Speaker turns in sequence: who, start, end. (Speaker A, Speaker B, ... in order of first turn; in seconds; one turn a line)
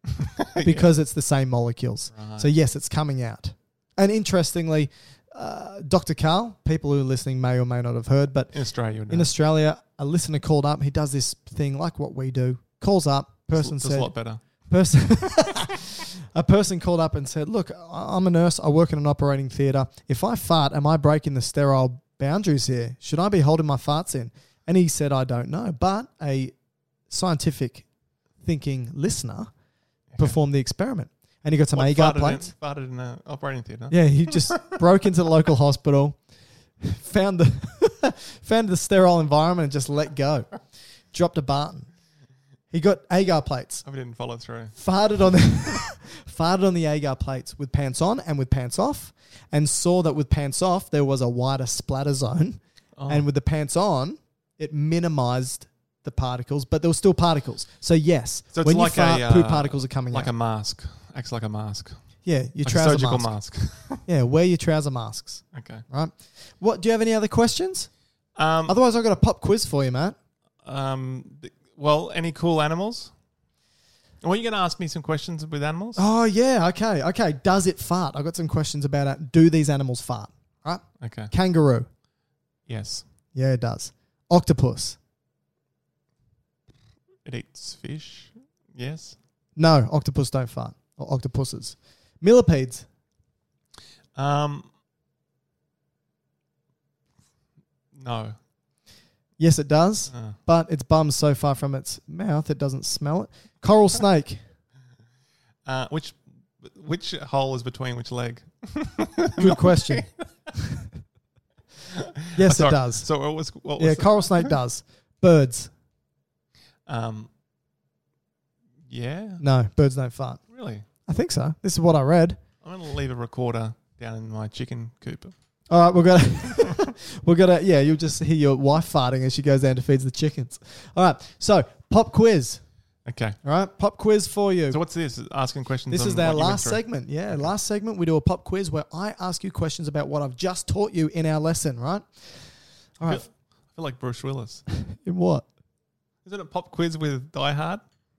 Speaker A: 0.2-0.9
Speaker B: 0.6-8.5
Speaker A: 2.1-2.5
Speaker A: 8.5-9.3
Speaker B: 9.1-14.1
Speaker A: 13.5-14.4
Speaker B: 14.7-26.5
Speaker B: 27.1-27.9
Speaker B: 28.4-29.5
Speaker B: 30.2-32.5
Speaker A: 31.7-34.8
Speaker B: 33.9-36.2
Speaker B: 36.8-40.5
Speaker B: 41.1-41.9
Speaker B: 42.7-43.8
Speaker A: 43.8-44.8
Speaker B: 44.8-60.3
Speaker A: 53.0-53.2
Speaker A: 58.5-62.0
Speaker B: 62.2-63.3
Speaker A: 62.6-64.0
Speaker B: 64.0-67.9
Speaker A: 65.5-65.8
Speaker A: 68.3-68.7
Speaker B: 68.7-70.2
Speaker A: 70.6-73.1
Speaker A: 74.2-76.0
Speaker B: 76.0-81.9
Speaker A: 81.0-81.3
Speaker A: 82.7-83.0
Speaker B: 83.3-85.0
Speaker A: 87.2-89.2
Speaker B: 89.5-92.8
Speaker A: 94.2-94.7
Speaker A: 97.9-98.4
Speaker B: 99.4-104.4
Speaker A: 105.7-110.5
Speaker B: 109.4-110.1
Speaker A: 111.9-114.5
Speaker B: 112.3-113.1
Speaker B: 113.8-115.7
Speaker A: 116.9-117.3
Speaker A: 118.9-119.4
Speaker B: 119.4-120.4
Speaker A: 120.5-120.8
Speaker B: 121.1-122.4
Speaker A: 122.6-125.3
Speaker B: 125.7-132.6
Speaker A: 133.1-133.4
Speaker B: 133.4-134.8
Speaker A: 134.7-136.8
Speaker B: 135.9-142.1
Speaker B: 143.0-143.2
Speaker A: 143.0-144.6
Speaker B: 144.9-145.4
Speaker A: 146.2-147.8